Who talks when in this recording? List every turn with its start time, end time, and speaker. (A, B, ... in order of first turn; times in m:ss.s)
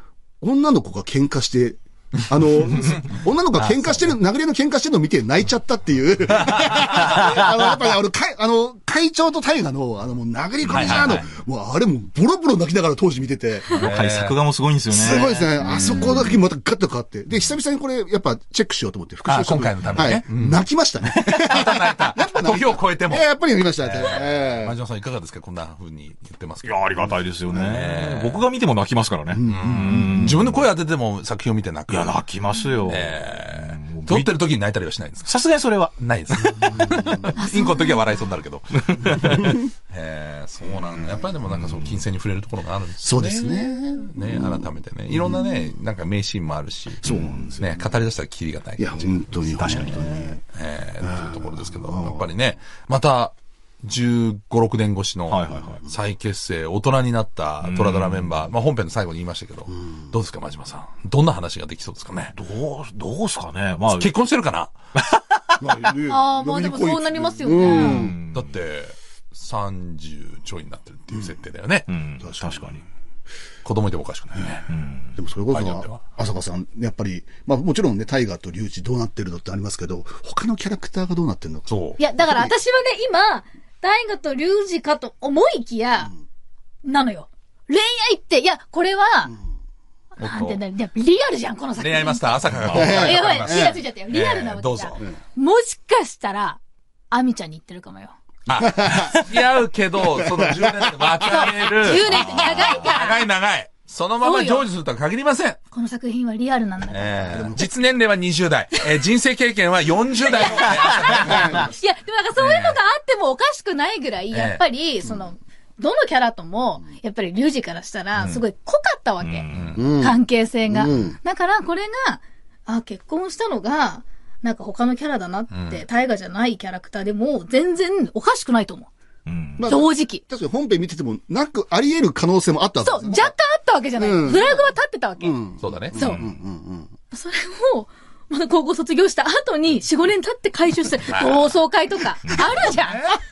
0:00.4-0:13.8 A
0:03.5-0:04.1 B
0:10.6-0:11.2 B
0:13.7-0:15.5 C
0:13.7-0:14.4 B
0:14.9-0:24.8 A
0:15.0-0:16.4 B
0:19.2-0:23.2 B
0:23.8-0:28.4 B
0:26.6-0:30.6 C
0:29.3-0:30.5 A
0:29.5-0:32.2 B
0:31.9-0:34.4 C
0:32.8-0:49.2 B
0:35.2-0:35.9 C
0:36.6-0:37.2 A
0:37.3-0:38.1 D
0:38.9-0:39.6 C
0:41.5-0:41.9 C
0:43.0-0:45.6 A
0:47.0-0:47.8 A
0:48.8-0:50.4 A
0:49.4-0:50.3 C
0:50.5-1:02.4 B
0:51.0-0:52.2 A
0:55.3-0:55.8 C
0:57.6-0:58.4 C
1:02.3-1:04.1 C
1:03.9-1:04.7 B
1:05.0-1:05.7 C
1:05.6-1:08.2 A
1:06.1-1:08.1 D
1:07.6-1:08.5 C
1:08.3-1:11.9 B
1:11.9-1:12.8 C
1:12.2-1:12.8 A
1:13.6-1:14.7 B
1:14.7-1:15.1 C
1:15.1-1:22.5 A
1:15.5-1:16.0 B
1:21.7-1:22.0 B
1:22.0-1:26.1 D
1:26.8-1:29.3 D
1:30.2-1:36.6 D
1:30.2-1:30.6 B
1:31.8-1:35.1 B
1:32.7-1:33.8 A
1:37.1-1:38.1 D
1:38.5-1:45.6 B
1:38.6-1:39.3 A
1:40.2-1:41.6 A
1:41.8-1:43.2 D
1:44.2-1:44.7 D
1:45.7-1:47.6 D
1:46.9-1:51.7 B
1:47.3-1:47.7 A
1:50.2-2:08.9 D
1:52.4-1:52.8 B
1:54.3-1:54.6 B
1:58.1-1:58.4 B
1:59.2-1:59.8 C
1:59.5-1:59.8 B
1:59.8-2:01.2 A
2:05.5-2:05.8 B
2:09.2-2:09.7 C
2:09.6-2:13.3 A
2:09.6-2:10.2 D
2:12.8-2:15.4 D
2:14.0-2:14.6 A
2:15.2-2:16.9 A
2:15.6-2:16.0 B
2:15.9-2:16.2 D
2:16.1-2:16.3 C
2:17.1-2:23.2 D
2:21.1-2:21.5 B
2:22.2-2:22.7 C